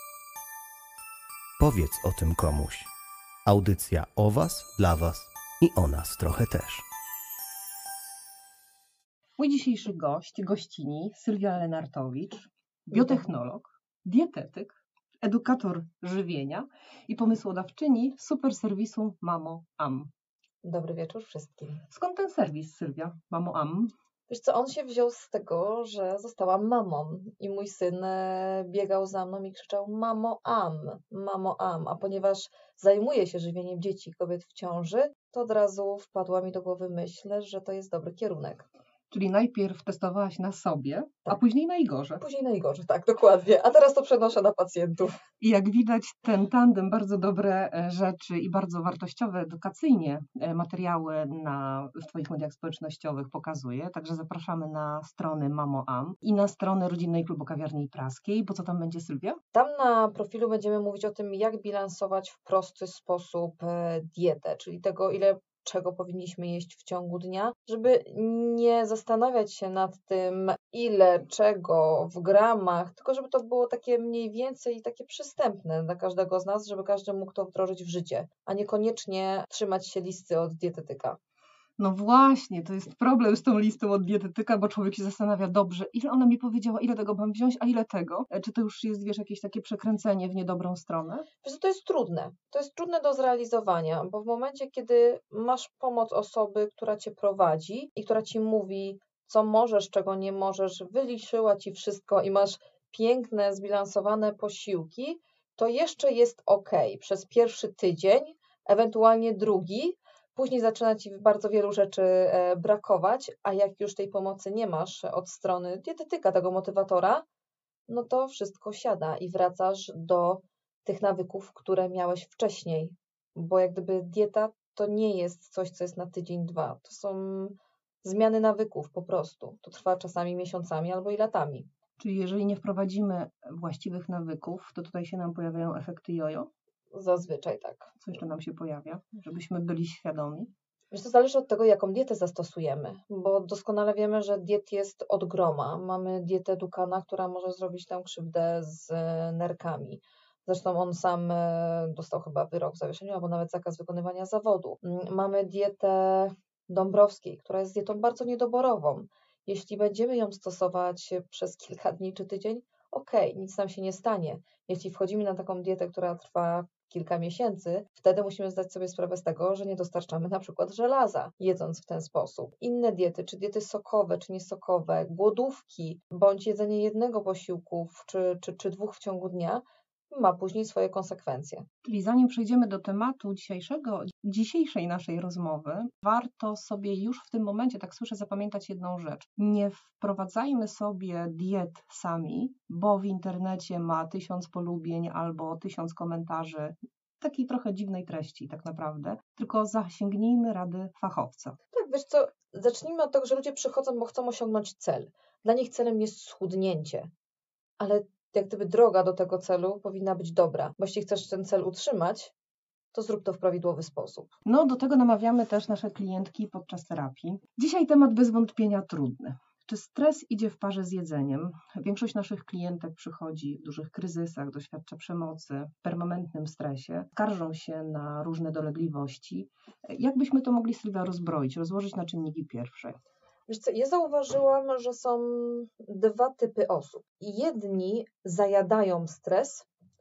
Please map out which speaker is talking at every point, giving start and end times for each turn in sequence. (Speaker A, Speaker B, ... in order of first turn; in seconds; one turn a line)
Speaker A: 1.6-2.9
Speaker A: 3.5-6.8
Speaker B: 9.4-20.1
Speaker C: 12.9-13.3
Speaker C: 20.6-21.8
Speaker B: 21.9-23.9
Speaker C: 24.3-38.7
Speaker B: 39.1-42.2
Speaker C: 42.2-45.2
Speaker B: 45.4-59.4
Speaker C: 59.5-81.2
Speaker B: 81.8-91.3
Speaker C: 91.4-117.2
Speaker C: 117.9-131.7
Speaker B: 132.0-136.5
Speaker C: 136.9-137.9
Speaker B: 138.0-140.5
Speaker C: 140.9-181.7
Speaker B: 181.8-201.6
Speaker C: 201.7-207.1
Speaker C: 207.8-212.3
Speaker C: 212.9-214.3
Speaker B: 214.4-233.0
Speaker C: 233.5-239.7